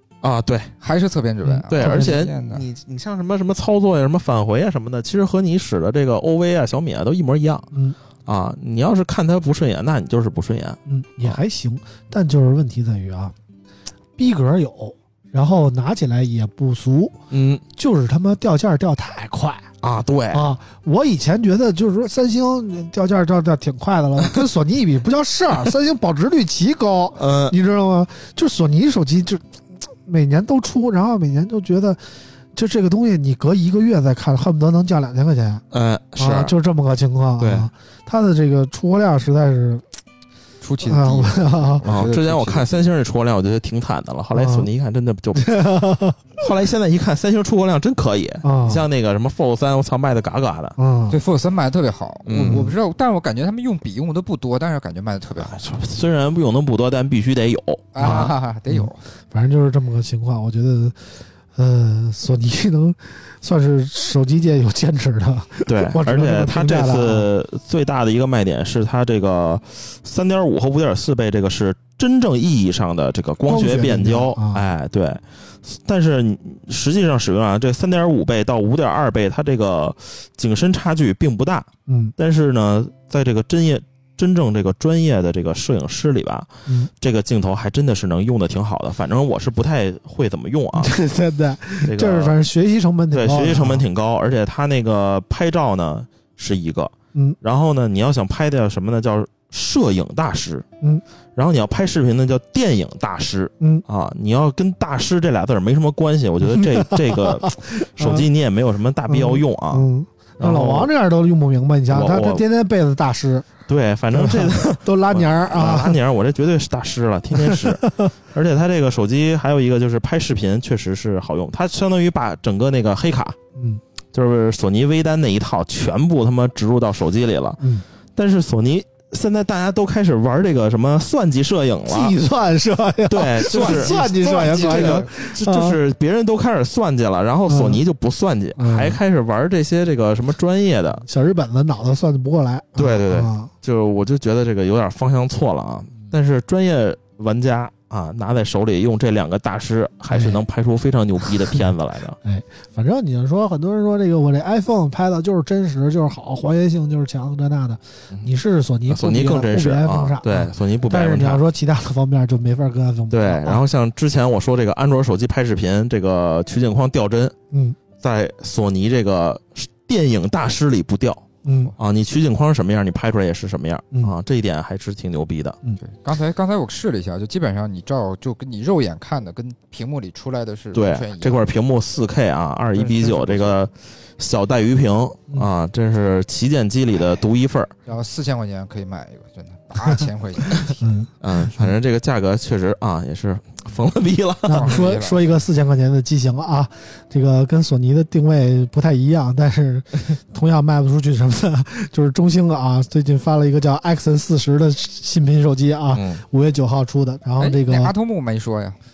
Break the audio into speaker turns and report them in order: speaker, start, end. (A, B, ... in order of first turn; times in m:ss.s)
0:00.2-0:00.7 A
0:00.8-0:02.6 B
0:01.7-0:07.7 A
0:01.8-0:02.2 C
0:08.3-0:11.4 A
0:10.9-0:13.3 C
0:14.2-0:17.2 C
0:17.3-0:17.6 A
0:17.7-0:19.7 C
0:19.8-0:20.4 A
0:20.3-0:29.4 C
0:27.2-0:27.6 A
0:30.0-0:32.0 C
0:32.5-0:35.6 C
0:35.7-0:36.5 A
0:36.2-0:39.8 C
0:37.4-0:37.7 A
0:40.6-0:42.8 B
0:40.8-0:41.8 C
0:41.8-0:45.7 A
0:44.3-0:44.7 C
0:45.4-0:46.2 C
0:46.4-0:50.8 A
0:48.4-0:48.8 C
0:50.8-0:51.2 C
0:51.1-0:55.6 B
0:52.3-0:52.7 A
0:55.5-0:58.3 A
0:57.9-0:59.0 B
0:58.0-1:01.0 C
1:01.6-1:07.3 C
1:05.7-1:30.9 A
1:13.5-1:14.6 C
1:21.9-1:22.1 C
1:30.8-1:33.8 C
1:31.8-1:32.4 A
1:33.1-1:40.7 A
1:41.4-1:49.9 A
1:46.5-1:48.2 C
1:49.1-1:53.5 C
1:50.4-1:50.9 A
1:51.9-1:52.4 A
1:53.7-2:03.4 A
1:54.1-1:56.0 C
1:57.4-1:58.1 C
2:03.6-2:03.8 C
2:04.1-2:07.6 A
2:08.2-2:12.2 A
2:11.9-2:15.8 C
2:13.1-2:21.0 A
2:13.4-2:15.1 B
2:17.5-2:17.8 C
2:18.6-2:19.0 C
2:21.0-2:23.5 C
2:22.8-2:32.2 A
2:30.1-2:30.4 C
2:32.2-2:43.6 C
2:38.9-2:41.4 A
2:43.1-2:47.4 A
2:47.5-2:47.8 C
2:48.0-2:51.3 A
2:51.4-2:51.7 C
2:51.8-2:55.6 A
2:55.8-3:01.5 B
3:00.7-3:07.7 A
3:02.8-3:03.6 B
3:07.9-3:10.8 B
3:10.8-3:11.7 C
3:11.2-3:14.8 A
3:14.5-3:27.9 C
3:14.5-3:15.3 B
3:25.9-3:26.2 A
3:27.4-3:28.8 B